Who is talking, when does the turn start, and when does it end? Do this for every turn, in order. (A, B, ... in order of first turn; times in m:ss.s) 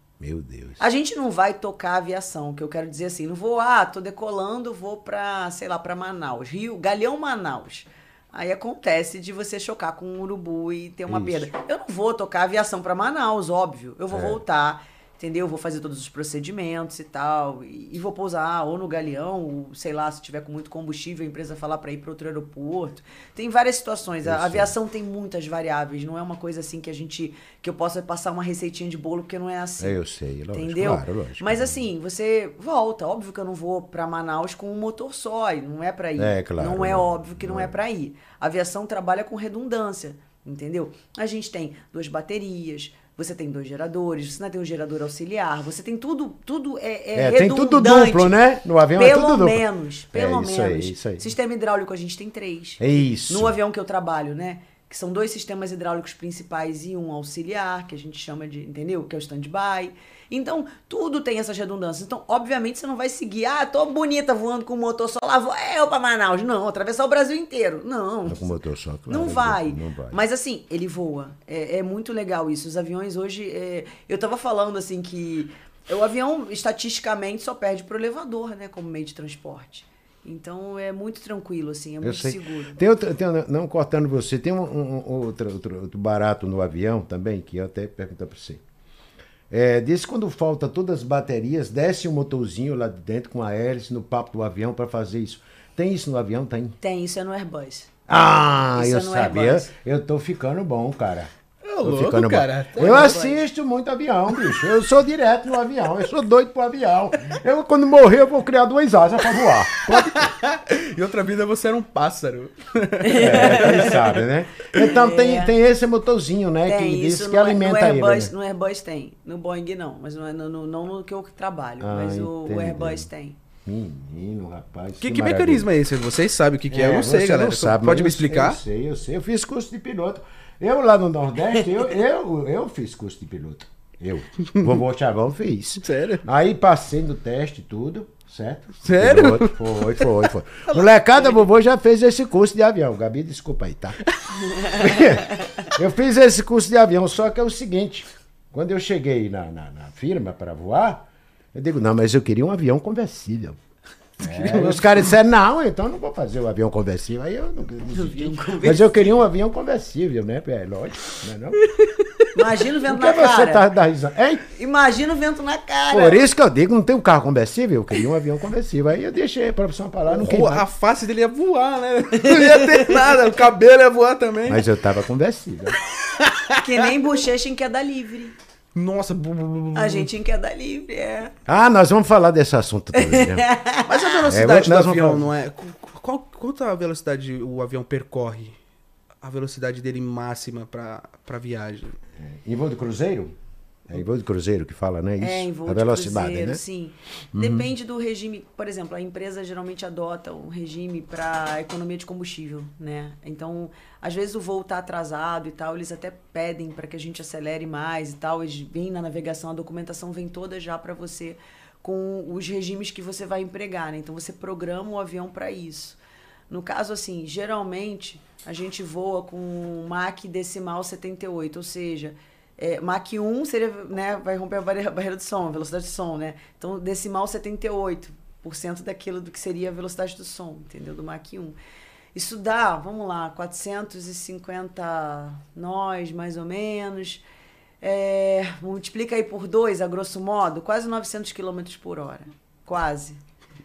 0:00.2-0:00.8 A
0:00.8-0:30.0 B
0:11.1-0:11.5 A
0:14.1-0:14.4 A
0:24.2-0:24.7 A
0:29.8-0:31.8 A
0:30.5-0:48.4 B
0:36.2-0:37.7 A
0:47.1-0:51.3 A
0:48.9-1:08.5 B
0:52.8-0:53.5 A
1:08.3-1:10.2 A
1:09.1-1:22.8 B
1:22.0-1:28.6 A
1:29.5-1:36.8 A
1:36.8-1:37.9 B
1:38.1-1:41.3 A
1:38.7-1:39.7 B
1:41.6-1:43.1 C
1:41.8-1:50.3 A
1:42.8-1:43.4 B
1:49.3-1:54.2 C
1:53.0-1:54.0 B
1:53.2-1:58.3 A
1:54.8-1:55.5 B
1:56.6-2:03.4 B
2:01.8-2:03.1 A
2:03.6-2:05.7 A
2:05.0-2:08.6 C
2:06.7-2:24.0 A
2:15.8-2:16.2 C
2:18.8-2:20.8 C
2:24.6-2:33.6 A
2:34.2-2:41.6 A
2:34.2-2:35.1 C
2:37.9-2:39.1 B
2:41.6-2:42.3 C
2:42.3-2:43.6 B
2:42.8-2:44.4 A
2:44.5-2:46.2 B
2:45.9-2:50.6 A
2:50.1-2:54.7 C
2:52.4-2:52.8 B
2:54.4-2:55.8 A
2:56.1-2:56.5 C
2:56.5-2:58.3 B
2:58.7-3:00.1 C
2:59.7-3:01.3 B
3:01.4-3:03.5 A
3:02.9-3:04.0 B
3:03.8-3:08.6 C
3:04.2-3:05.3 A
3:09.2-3:12.0 C
3:12.2-3:13.3 A
3:13.9-3:16.6 A
3:15.2-3:36.0 B
3:17.3-3:17.7 A
3:36.5-3:51.6 B
3:52.1-3:57.2 B
3:57.8-4:03.2 B